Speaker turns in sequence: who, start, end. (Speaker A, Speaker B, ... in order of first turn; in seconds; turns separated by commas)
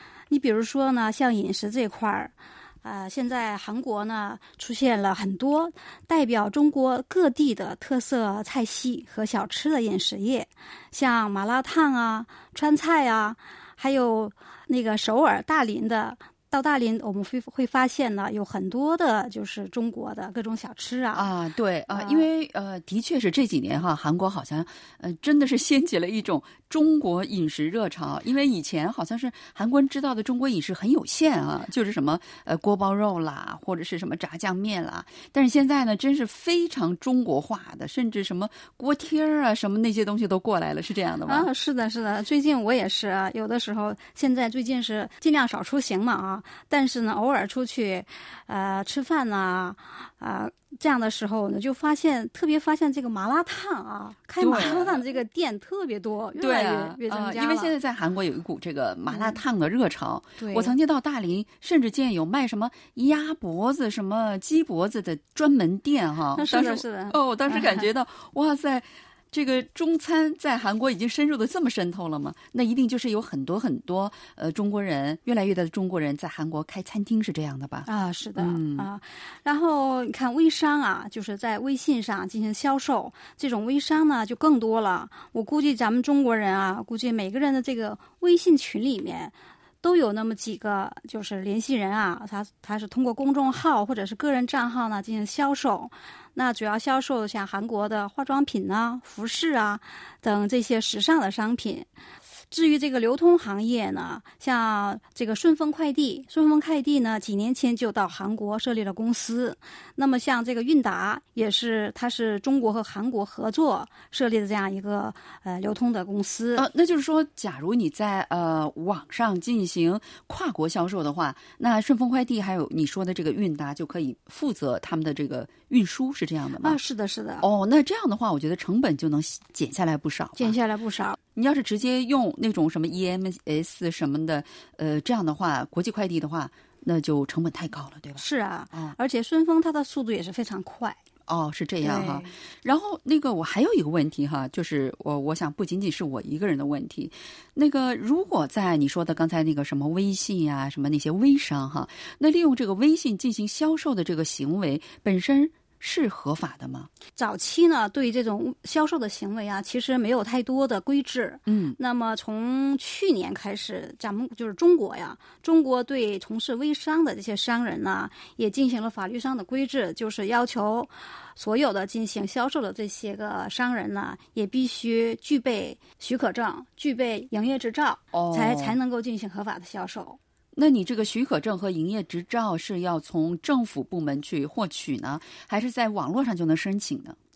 Speaker A: 0.3-21.3, Speaker B: 21.1-41.5, Speaker A: 21.9-22.3, Speaker A: 41.3-57.7, Speaker B: 54.4-55.0, Speaker B: 56.4-78.9, Speaker A: 59.1-59.4, Speaker A: 60.4-60.7, Speaker A: 66.3-67.9, Speaker A: 77.8-101.9, Speaker A: 102.5-116.7, Speaker B: 116.6-126.8, Speaker A: 126.6-127.5, Speaker B: 127.4-130.5, Speaker A: 130.3-131.2, Speaker B: 131.3-138.9, Speaker A: 138.2-141.0, Speaker B: 141.3-156.9, Speaker A: 141.8-142.3, Speaker A: 157.1-180.2, Speaker B: 161.5-161.8, Speaker B: 178.1-178.8, Speaker B: 180.5-187.2